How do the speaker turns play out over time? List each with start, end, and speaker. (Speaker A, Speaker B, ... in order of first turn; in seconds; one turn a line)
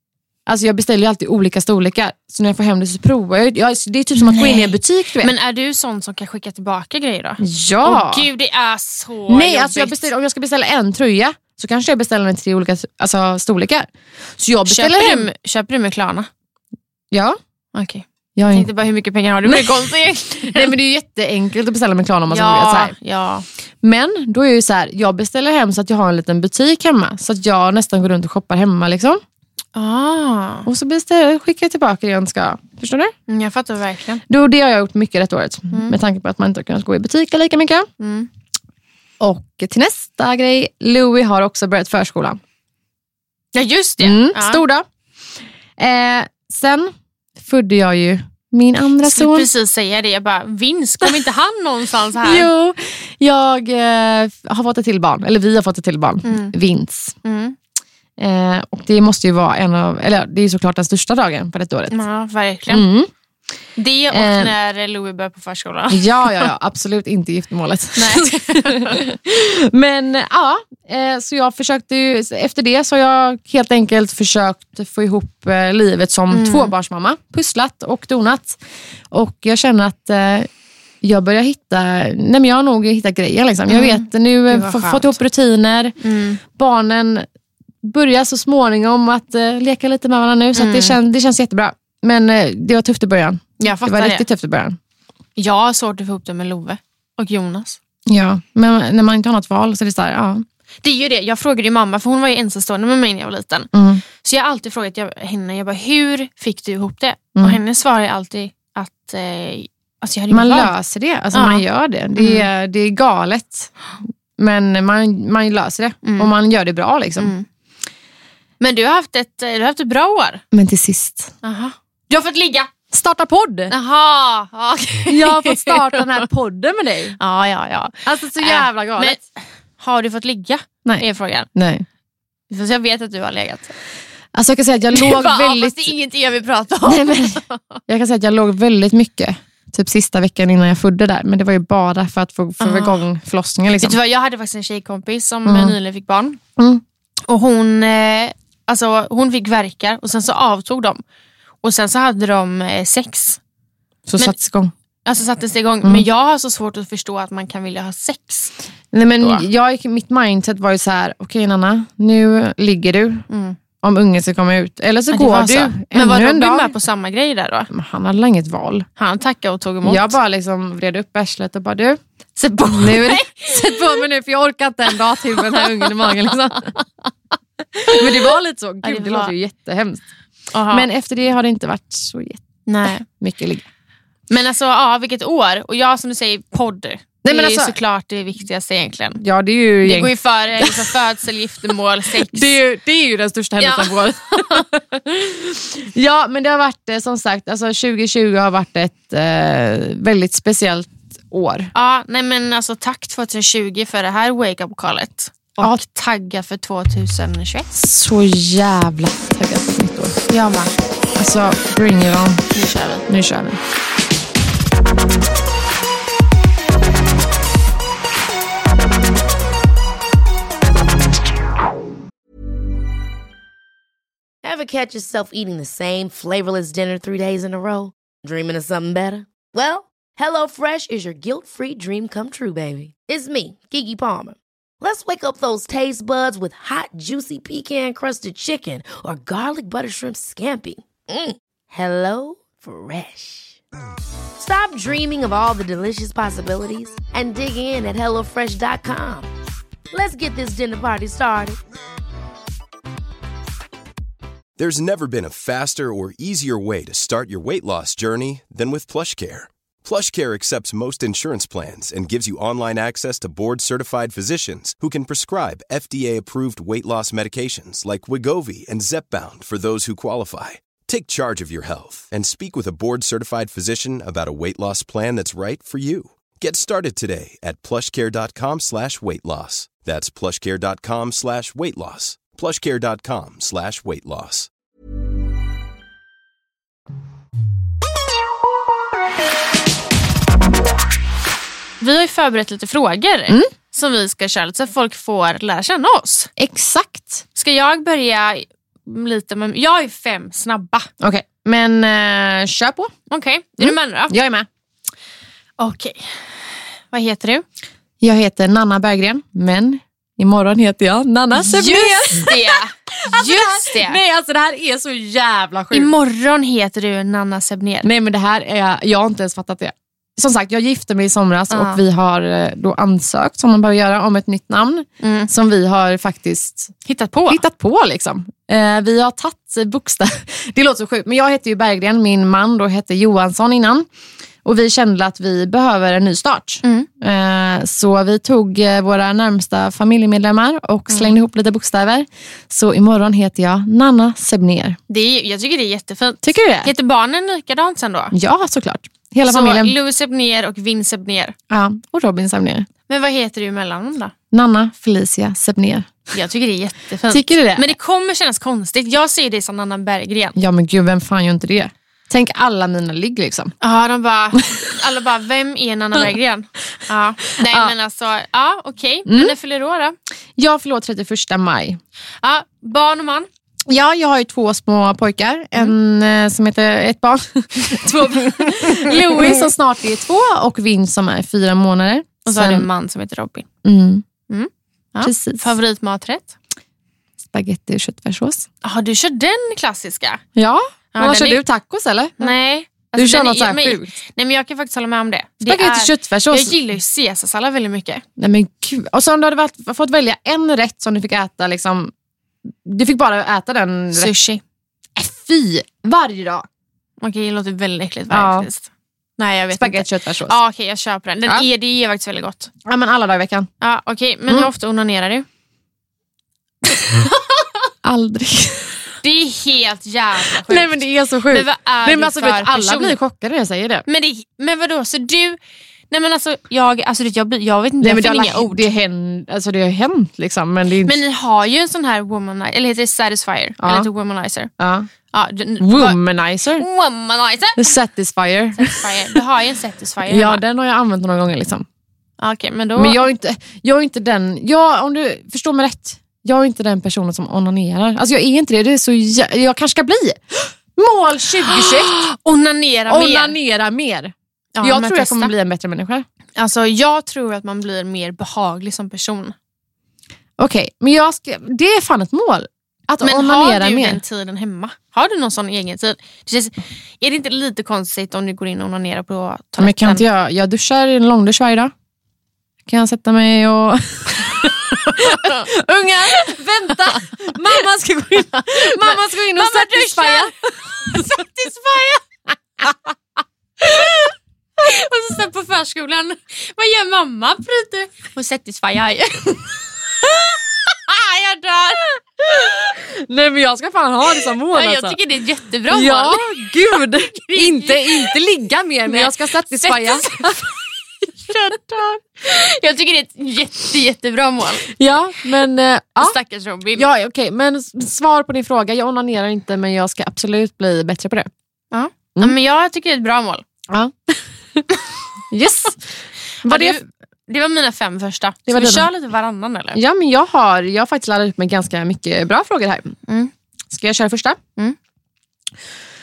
Speaker A: 0.5-5.3
Speaker B: 4.2-10.1
Speaker A: 7.4-8.3
Speaker A: 9.3-15.3
Speaker B: 14.7-16.3
Speaker A: 17.1-17.4
Speaker B: 17.7-20.7
Speaker A: 18.4-18.7
Speaker A: 19.4-22.9
Speaker B: 22.3-23.4
Speaker A: 23.8-29.2
Speaker B: 29.7-30.7
Speaker A: 30.6-33.1
Speaker B: 33.3-34.2
Speaker A: 34.3-37.9
Speaker B: 38.0-38.3
Speaker A: 39.2-42.4
Speaker B: 43.5-44.6
Speaker A: 44.0-44.9
Speaker A: 45.8-49.5
Speaker B: 49.0-52.5
Speaker A: 52.2-57.1
Speaker B: 56.2-56.5
Speaker B: 57.2-57.6
Speaker A: 58.2-62.0
Speaker B: 61.9-62.9
Speaker A: 62.7-63.1
Speaker B: 63.8-66.5
Speaker A: 64.1-64.5
Speaker A: 65.9-78.6
Speaker B: 68.0-69.0
Speaker B: 76.3-76.7
Speaker A: 79.1-80.5
Speaker A: 81.0-87.3
Speaker B: 83.7-85.2
Speaker B: 86.0-86.4
Speaker A: 87.8-94.8
Speaker B: 90.6-91.0
Speaker B: 93.6-94.2
Speaker B: 95.4-97.8
Speaker A: 98.1-100.5
Speaker B: 100.8-110.7
Speaker A: 103.7-104.0
Speaker A: 110.3-113.7
Speaker B: 111.3-111.6
Speaker B: 112.2-112.5
Speaker A: 114.4-117.3
Speaker B: 116.0-116.3
Speaker B: 117.2-117.5
Speaker B: 118.6-120.4
Speaker A: 120.5-121.3
Speaker B: 121.4-122.7
Speaker A: 122.9-123.7
Speaker B: 123.7-126.2
Speaker A: 125.1-127.2
Speaker B: 127.2-129.2
Speaker A: 128.1-129.2
Speaker B: 129.8-131.5
Speaker A: 130.8-131.9
Speaker B: 132.5-133.7
Speaker A: 134.3-135.9
Speaker B: 134.9-137.8
Speaker A: 136.8-144.0
Speaker B: 142.6-143.1
Speaker B: 143.8-146.4
Speaker A: 145.4-145.7
Speaker A: 146.6-146.8
Speaker B: 147.3-151.0
Speaker B: 151.6-153.4
Speaker A: 154.1-154.7
Speaker B: 155.1-158.6
Speaker A: 158.9-163.2
Speaker B: 159.2-159.4
Speaker B: 163.3-163.6
Speaker A: 163.8-166.7
Speaker B: 165.1-167.7
Speaker A: 167.7-168.9
Speaker B: 169.0-170.2
Speaker A: 169.8-172.0
Speaker B: 172.4-174.0
Speaker A: 172.6-176.7
Speaker B: 175.1-176.8
Speaker A: 177.8-180.1
Speaker B: 178.8-179.3
Speaker B: 180.5-180.9
Speaker A: 180.7-182.4
Speaker B: 182.7-183.1
Speaker A: 183.0-183.7
Speaker B: 184.3-189.2
Speaker A: 187.2-187.8
Speaker A: 189.2-190.9
Speaker B: 189.8-192.6
Speaker A: 192.1-201.7
Speaker B: 193.6-194.7
Speaker B: 201.7-207.7
Speaker A: 207.7-210.2
Speaker B: 210.3-210.7
Speaker A: 211.2-212.4
Speaker B: 212.5-213.1
Speaker A: 213.1-213.6
Speaker C: 224.4-243.6
Speaker C: 244.4-249.3
Speaker C: 249.9-251.6
Speaker D: 254.6-284.5
Speaker B: 291.8-296.3
Speaker A: 296.4-297.2
Speaker B: 297.4-300.9
Speaker A: 301.0-302.9
Speaker B: 303.1-304.1
Speaker A: 303.6-304.5
Speaker B: 305.6-306.1
Speaker B: 306.9-307.4
Speaker A: 308.0-315.9
Speaker B: 311.4-314.0
Speaker B: 315.7-317.9
Speaker A: 317.8-326.7
Speaker B: 321.5-321.8
Speaker B: 325.0-325.3
Speaker B: 326.9-327.4
Speaker A: 327.3-333.9
Speaker A: 334.4-344.8
Speaker B: 336.6-336.9
Speaker B: 340.9-341.1
Speaker B: 344.9-348.1
Speaker A: 346.2-346.7
Speaker A: 348.1-349.7
Speaker B: 349.2-351.4
Speaker A: 351.5-352.7
Speaker B: 352.9-354.1
Speaker A: 354.3-355.9
Speaker B: 356.1-360.4
Speaker A: 357.1-357.7
Speaker A: 360.4-363.6
Speaker B: 363.6-369.9
Speaker A: 367.4-367.7
Speaker A: 369.1-369.4
Speaker A: 370.4-371.8
Speaker B: 372.2-373.3
Speaker A: 373.7-382.7
Speaker B: 378.4-379.5
Speaker B: 382.2-383.5
Speaker A: 383.6-384.0
Speaker B: 384.3-386.4
Speaker A: 385.0-385.6
Speaker A: 387.2-388.4
Speaker B: 388.6-390.2
Speaker A: 390.4-392.4
Speaker B: 390.9-391.4
Speaker B: 392.2-398.0
Speaker A: 392.9-394.0
Speaker A: 395.4-396.6
Speaker A: 398.2-401.9
Speaker A: 402.6-404.1
Speaker B: 403.9-404.4
Speaker A: 404.9-406.4
Speaker B: 407.0-412.5
Speaker A: 408.1-408.5
Speaker A: 409.5-410.4
Speaker A: 412.6-413.5
Speaker B: 413.6-415.2
Speaker A: 417.8-418.8
Speaker B: 419.0-423.0
Speaker A: 420.3-423.9
Speaker B: 423.9-425.4
Speaker B: 425.9-428.7
Speaker A: 427.8-431.0
Speaker B: 430.8-434.5
Speaker A: 433.6-433.9
Speaker A: 434.6-434.9
Speaker B: 435.1-436.0
Speaker A: 435.6-436.6
Speaker B: 436.6-437.8
Speaker A: 437.6-439.2
Speaker B: 438.6-440.4
Speaker A: 440.1-441.6
Speaker B: 442.2-443.0
Speaker A: 442.8-452.0
Speaker B: 451.4-453.4
Speaker A: 452.9-456.1
Speaker B: 454.6-455.3
Speaker B: 456.4-459.4
Speaker A: 460.4-464.0
Speaker B: 463.0-470.1
Speaker A: 469.6-471.7
Speaker A: 472.6-481.1
Speaker B: 475.0-475.5
Speaker B: 476.1-477.6
Speaker B: 478.3-482.0
Speaker B: 483.7-484.1
Speaker B: 484.6-489.4
Speaker B: 490.9-492.0
Speaker A: 492.2-495.0
Speaker B: 494.5-498.1
Speaker A: 495.7-500.5
Speaker B: 498.9-500.5
Speaker B: 501.3-501.6
Speaker A: 501.3-502.0
Speaker B: 502.2-504.7
Speaker A: 504.7-506.2
Speaker B: 506.0-506.9
Speaker A: 506.8-511.3
Speaker B: 511.7-513.4
Speaker A: 513.7-514.6
Speaker A: 515.3-515.8
Speaker B: 516.4-519.8
Speaker A: 516.4-516.8
Speaker A: 518.5-518.9
Speaker A: 519.7-523.0
Speaker A: 523.7-524.4